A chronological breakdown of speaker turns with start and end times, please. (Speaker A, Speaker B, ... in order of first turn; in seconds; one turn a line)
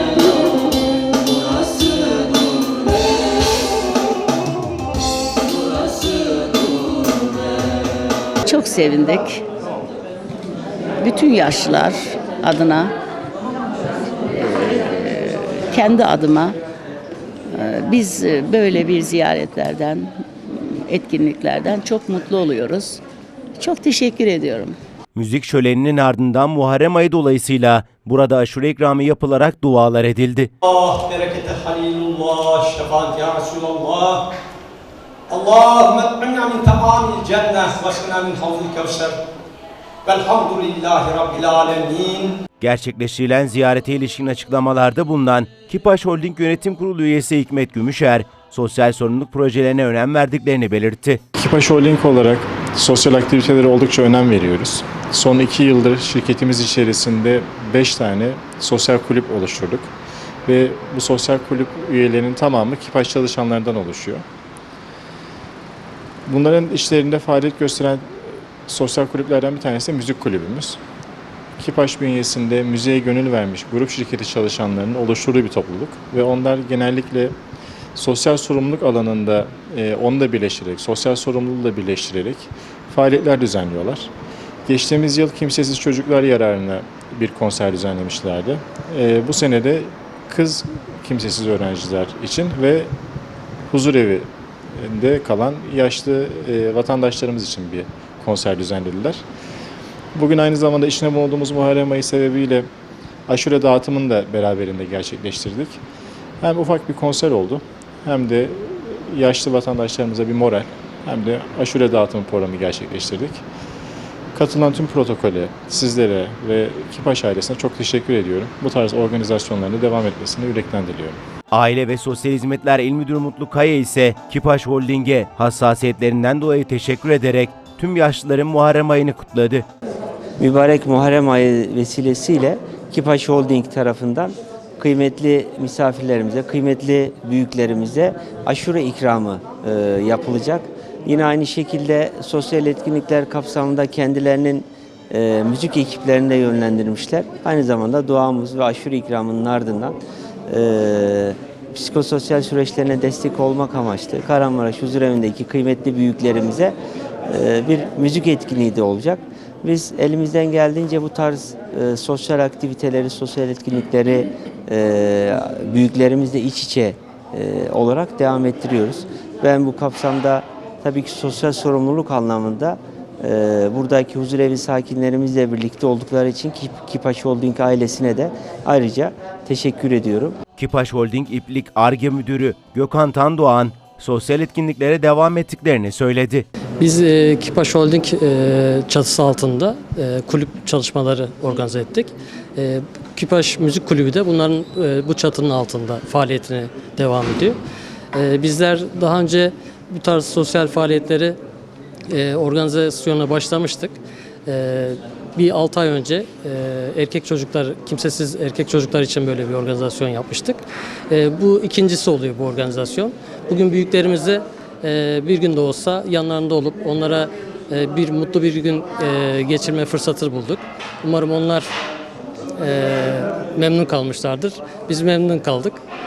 Speaker A: 8.4-9.4
Speaker A: 11.0-12.9
Speaker A: 14.3-16.6
Speaker A: 17.5-23.0
Speaker A: 23.6-24.8
Speaker B: 25.1-30.5
Speaker C: 30.6-34.3
Speaker C: 35.3-39.2
Speaker C: 40.0-42.4
Speaker B: 42.6-51.2
Speaker D: 51.4-59.9
Speaker D: 60.5-64.2
Speaker D: 66.3-70.8
Speaker D: 71.6-77.3
Speaker D: 78.0-84.1
Speaker D: 84.7-92.9
Speaker D: 93.7-99.2
Speaker D: 100.2-102.7
Speaker D: 103.3-105.8
Speaker D: 106.4-113.4
Speaker D: 114.3-121.2
Speaker B: 121.5-129.7
Speaker E: 130.4-150.0
Speaker E: 150.5-156.8
Speaker E: 157.3-180.4
Speaker B: 180.6-186.5
Speaker F: 186.8-197.6
Speaker F: 198.1-201.4
Speaker F: 202.1-221.7
Speaker F: 222.6-225.8